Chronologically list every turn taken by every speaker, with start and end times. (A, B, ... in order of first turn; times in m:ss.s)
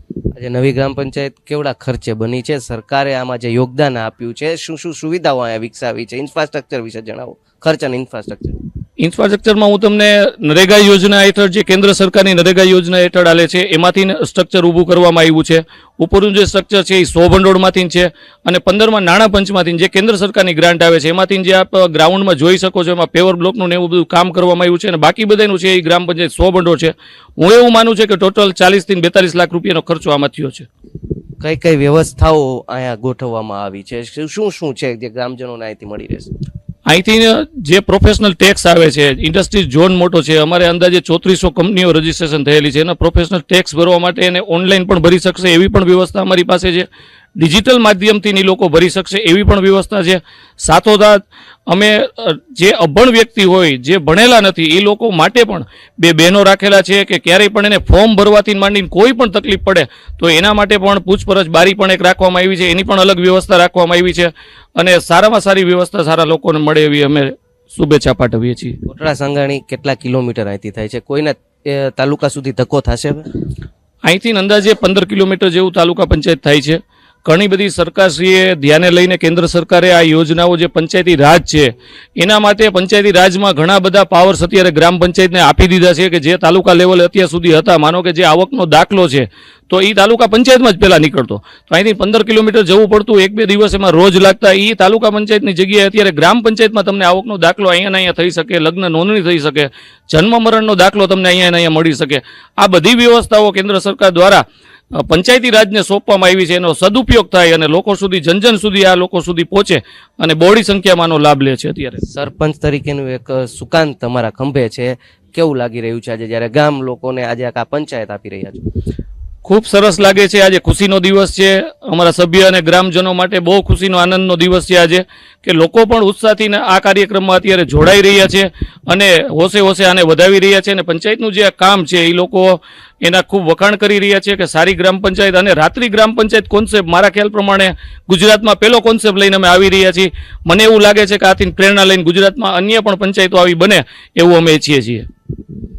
0:00.4-0:08.6 A
0:09.0-0:30.7 B
0:31.4-0:36.3 A
0:36.9-0:46.9 B
0:47.4-1:08.8 B
1:08.9-1:13.3 A
1:14.0-1:44.4 B
1:45.0-1:52.0 B
1:52.1-1:58.7 A
1:59.4-2:25.1 B